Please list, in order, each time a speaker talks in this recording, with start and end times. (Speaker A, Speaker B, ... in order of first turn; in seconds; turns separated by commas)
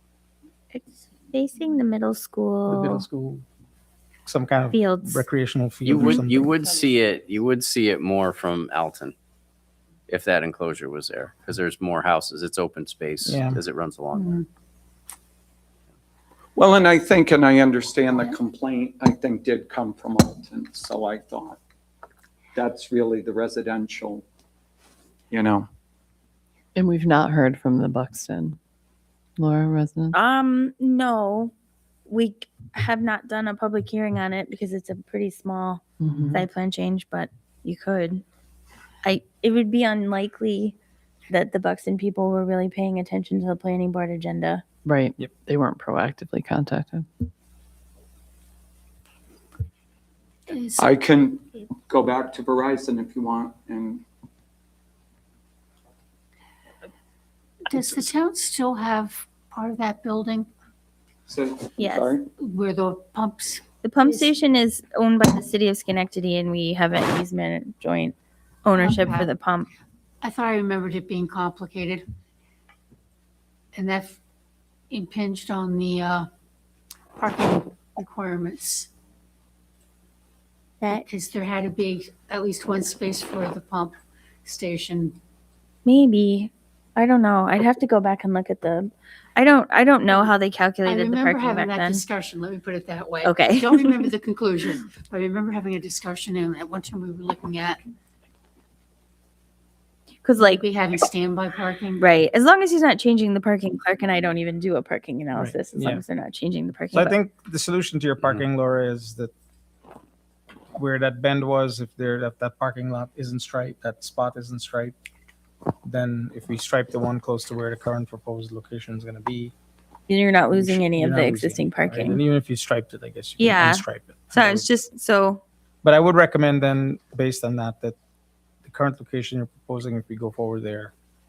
Speaker A: 0.7-3.0, Speaker B: 2.7-3.4, Speaker B: 4.2-6.5, Speaker A: 4.7-5.3, Speaker C: 5.8-9.1, Speaker C: 10.1-14.4, Speaker B: 13.2-13.6, Speaker D: 16.6-21.6, Speaker D: 22.5-24.2, Speaker D: 25.3-25.7, Speaker E: 26.7-28.6, Speaker E: 29.4-30.2, Speaker A: 30.1-31.5, Speaker A: 32.1-35.8, Speaker E: 36.0-36.4, Speaker A: 36.3-38.2, Speaker A: 39.0-40.8, Speaker A: 41.3-44.6, Speaker E: 44.8-47.1, Speaker F: 50.5-50.9, Speaker D: 50.8-54.0, Speaker F: 57.6-60.5, Speaker D: 61.3-62.3, Speaker A: 61.8-62.1, Speaker F: 62.3-64.2, Speaker A: 63.8-69.7, Speaker F: 68.8-69.3, Speaker F: 70.2-72.1, Speaker F: 73.7-74.2, Speaker F: 74.9-76.3, Speaker F: 77.2-78.9, Speaker F: 80.9-85.2, Speaker A: 85.8-92.0, Speaker F: 90.8-97.8, Speaker A: 93.2-94.0, Speaker A: 100.2-100.6, Speaker F: 100.4-102.0, Speaker A: 102.0-107.2, Speaker B: 105.3-106.0, Speaker B: 106.9-109.3, Speaker B: 110.7-114.9, Speaker B: 115.8-119.5, Speaker A: 120.1-122.2, Speaker B: 120.5-124.7, Speaker A: 123.4-125.4, Speaker B: 125.8-128.0, Speaker B: 128.6-130.9